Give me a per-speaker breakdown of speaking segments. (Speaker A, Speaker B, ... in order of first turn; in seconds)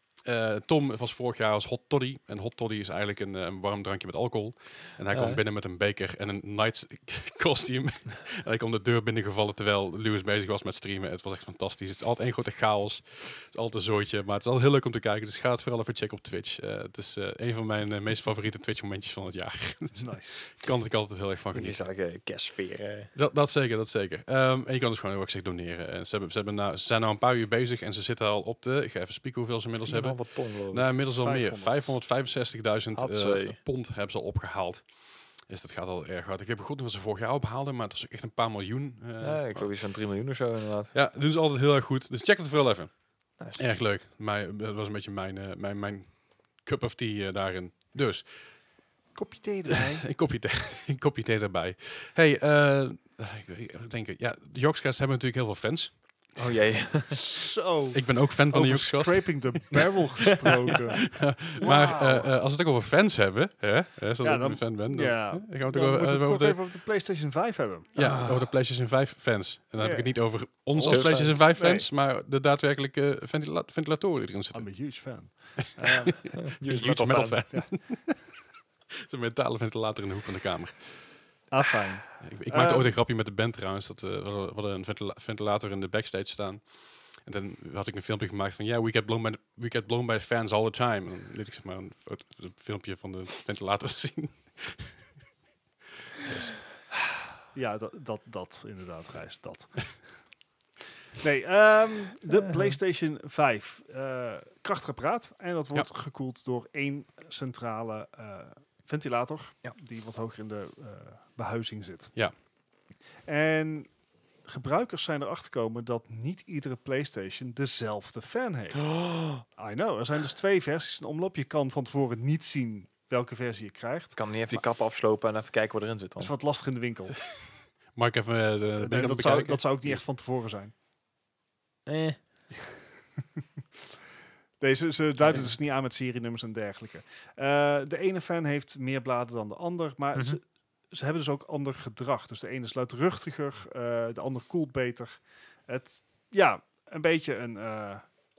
Speaker A: 0.2-21.9, 23.1-39.8, 40.9-48.6, 49.7-56.4, 57.9-59.8, 60.3-66.6, 67.9-74.9, 75.6-78.3, 79.0-81.2, 82.2-95.0, 96.2-96.6, 127.9-130.0
Speaker B: 5.1-5.4, 21.5-23.1, 29.8-30.9, 32.9-33.6, 39.2-40.9, 43.4-43.8, 56.4-57.2, 68.0-68.5, 70.8-71.4, 76.4-77.4, 118.7-119.4, 124.2-126.3, 131.8-132.2, 135.2-135.5
Speaker C: 19.9-20.5, 31.1-32.0, 49.1-50.0, 57.1-62.4, 64.2-67.9, 69.8-71.9, 74.5-76.3, 77.5-78.2, 81.5-83.0, 97.5-100.1, 101.2-112.4, 113.2-124.6, 126.2-127.2, 128.8-130.7, 134.6-148.0